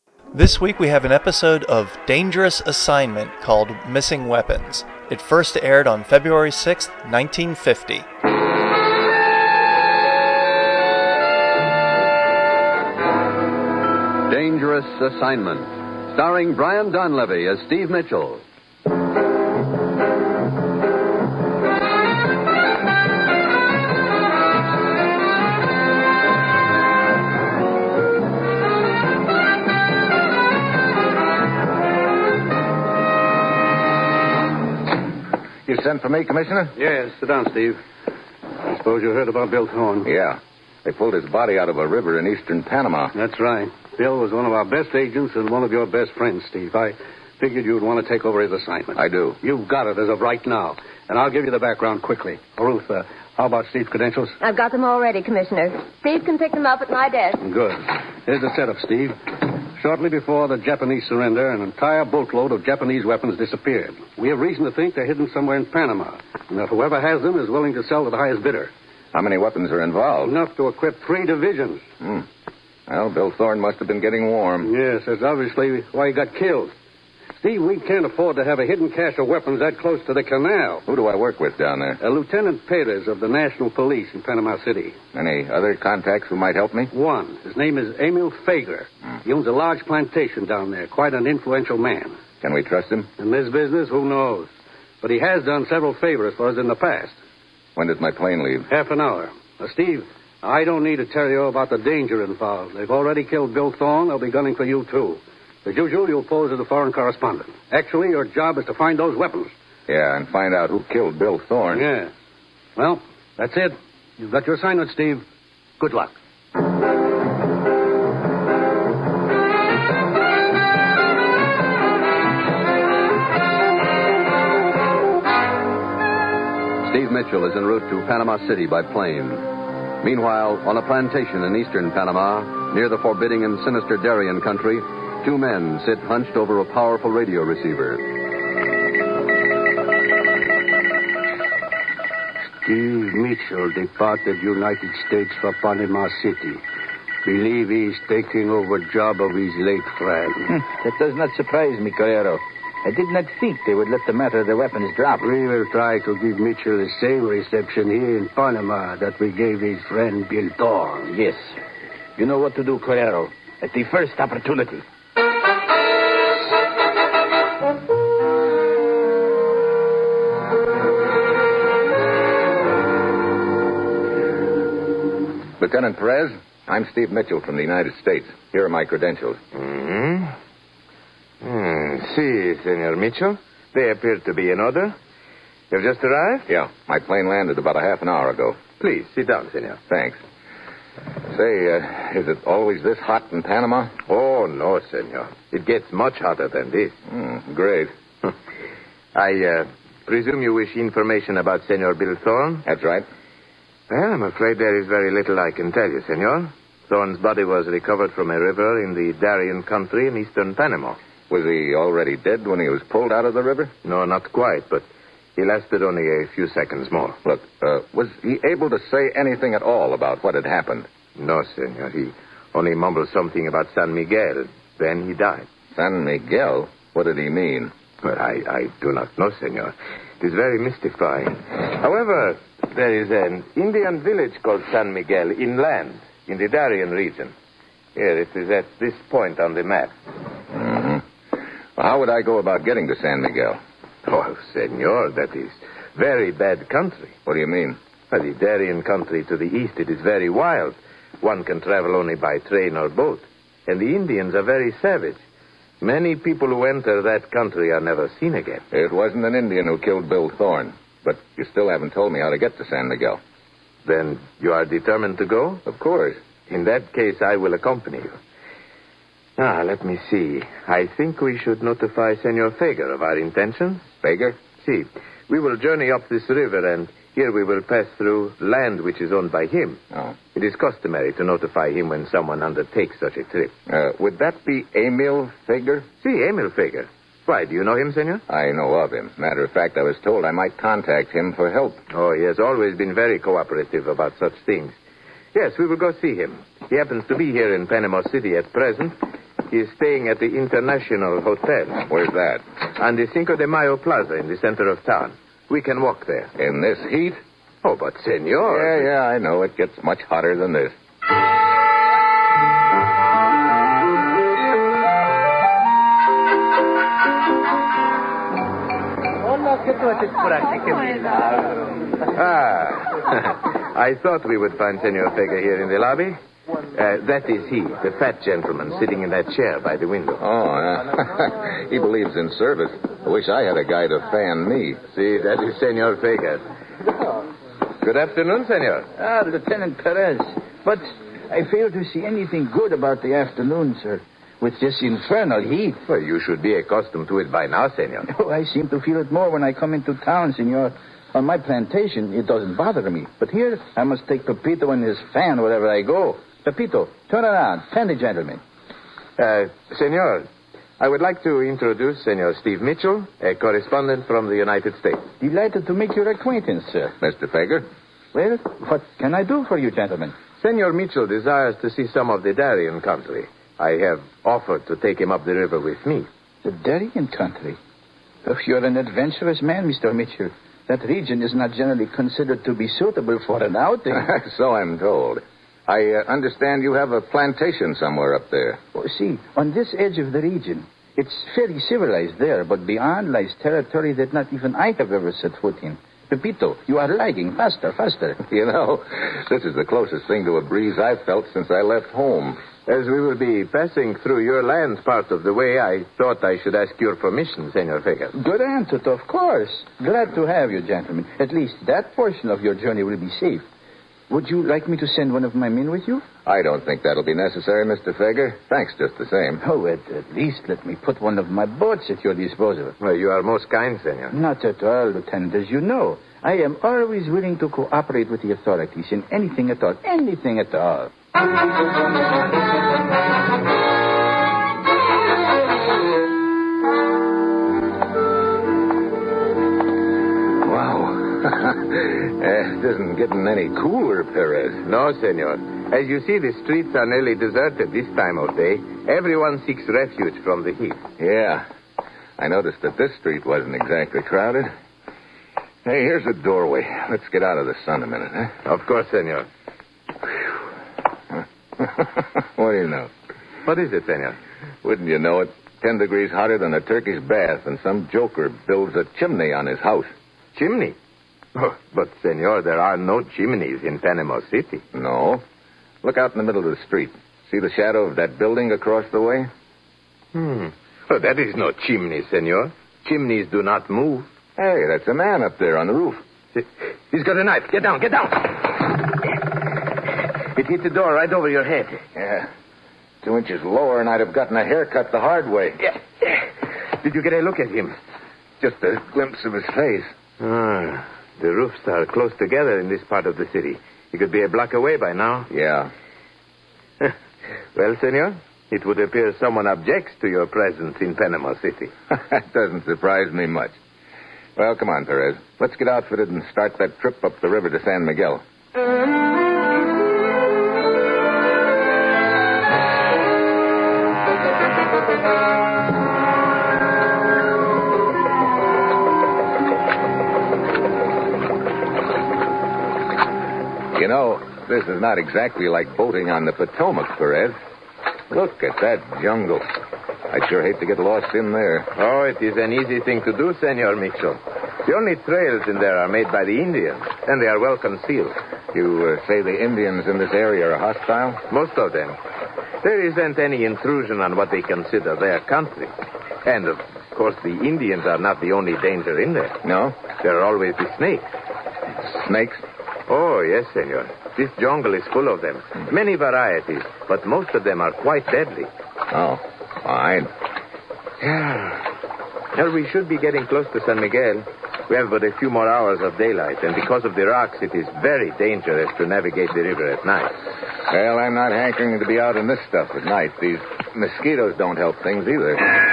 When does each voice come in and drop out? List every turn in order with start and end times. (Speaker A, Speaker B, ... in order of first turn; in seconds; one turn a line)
Speaker A: 0.3-8.1
Speaker B: 14.3-18.4
Speaker C: 35.7-36.8
Speaker D: 36.8-37.8
Speaker D: 38.6-40.1
Speaker C: 40.0-43.1
Speaker D: 43.1-54.4
Speaker C: 48.9-49.4
Speaker E: 54.4-57.4
Speaker D: 57.4-59.2
Speaker D: 59.8-68.7
Speaker C: 69.1-70.3
Speaker D: 70.2-71.8
Speaker C: 72.9-74.7
Speaker D: 74.6-76.7
Speaker D: 77.4-80.8
Speaker C: 80.9-82.0
Speaker D: 82.0-85.0
Speaker C: 85.1-86.9
Speaker D: 86.9-92.2
Speaker C: 92.4-93.1
Speaker D: 93.2-94.5
Speaker D: 95.0-97.2
Speaker C: 97.8-98.7
Speaker D: 98.7-109.5
Speaker C: 109.9-111.8
Speaker D: 111.7-112.1
Speaker D: 112.8-115.2
Speaker D: 115.8-116.2
Speaker B: 126.8-129.5
Speaker B: 130.0-138.1
Speaker D: 142.6-146.6
Speaker D: 147.2-150.6
Speaker F: 150.5-155.3
Speaker D: 155.2-161.1
Speaker F: 161.1-161.5
Speaker F: 162.2-164.8
Speaker C: 175.6-179.4
Speaker G: 179.5-180.3
Speaker G: 181.4-184.9
Speaker G: 185.7-186.5
Speaker C: 186.5-188.6
Speaker G: 188.8-189.8
Speaker C: 189.9-190.2
Speaker C: 191.3-193.9
Speaker G: 194.1-197.0
Speaker C: 197.1-197.9
Speaker G: 199.1-202.7
Speaker C: 202.7-203.1
Speaker G: 203.9-211.0
Speaker C: 211.3-213.7
Speaker G: 213.8-217.2
Speaker C: 217.2-220.9
Speaker G: 221.2-225.5
Speaker C: 225.8-227.7
Speaker G: 228.0-237.3
Speaker G: 237.9-239.9
Speaker C: 240.5-241.1
Speaker C: 241.8-243.6
Speaker G: 244.1-247.1
Speaker C: 247.2-247.8
Speaker G: 248.1-255.2
Speaker G: 255.8-258.6
Speaker C: 258.7-263.2
Speaker G: 263.8-265.6
Speaker C: 265.6-266.2
Speaker G: 266.5-268.2
Speaker G: 269.4-273.9
Speaker C: 274.0-274.4
Speaker G: 274.6-279.8
Speaker G: 280.3-283.5
Speaker C: 283.7-285.9
Speaker G: 286.0-288.2
Speaker C: 288.3-291.8
Speaker G: 291.9-294.8
Speaker G: 295.3-301.9
Speaker C: 301.9-302.4
Speaker G: 302.8-306.3
Speaker C: 306.4-307.2
Speaker G: 307.6-308.9
Speaker C: 308.5-310.8
Speaker G: 322.0-326.2
Speaker G: 326.7-330.2
Speaker C: 330.2-334.8
Speaker G: 334.9-336.4
Speaker G: 337.8-338.9
Speaker F: 339.0-345.8
Speaker G: 345.9-348.1
Speaker F: 348.1-358.4
Speaker G: 359.2-360.3
Speaker G: 360.8-365.1
Speaker F: 365.2-366.9
Speaker C: 367.0-367.7
Speaker F: 368.1-370.1
Speaker G: 370.4-376.1
Speaker F: 376.4-377.6
Speaker F: 378.2-384.1
Speaker C: 383.9-388.6
Speaker F: 388.8-398.2
Speaker C: 398.3-402.4
Speaker G: 402.6-408.1
Speaker F: 408.1-413.4
Speaker F: 414.1-416.0
Speaker C: 416.2-419.4
Speaker F: 419.4-422.8
Speaker G: 422.8-424.1
Speaker F: 424.1-430.9
Speaker C: 440.4-444.6
Speaker G: 444.6-450.8
Speaker C: 451.0-451.4
Speaker C: 452.2-454.5
Speaker C: 455.6-458.3
Speaker G: 458.4-459.3
Speaker C: 461.6-462.9
Speaker G: 463.4-464.2
Speaker C: 464.6-469.9
Speaker G: 470.3-470.8
Speaker G: 471.3-474.6
Speaker C: 474.7-475.2
Speaker C: 475.8-479.3
Speaker G: 480.1-484.1
Speaker C: 484.4-486.0
Speaker G: 486.3-488.9
Speaker G: 490.3-491.8
Speaker C: 491.9-492.3
Speaker C: 493.0-495.6
Speaker G: 495.6-497.8
Speaker C: 498.4-499.9
Speaker G: 500.2-505.3
Speaker C: 505.3-505.7
Speaker G: 507.6-511.7
Speaker C: 511.9-513.6
Speaker C: 514.4-518.2
Speaker C: 533.8-537.4
Speaker C: 538.1-539.5
Speaker C: 540.1-541.7
Speaker G: 541.8-548.2
Speaker C: 548.5-551.2
Speaker G: 551.3-552.0
Speaker G: 552.6-555.7
Speaker G: 556.2-559.4
Speaker C: 559.4-559.8
Speaker G: 560.0-561.1
Speaker C: 561.8-562.4
Speaker G: 562.9-568.5
Speaker C: 568.9-570.1
Speaker G: 571.0-571.7
Speaker G: 572.3-580.1
Speaker C: 580.7-585.5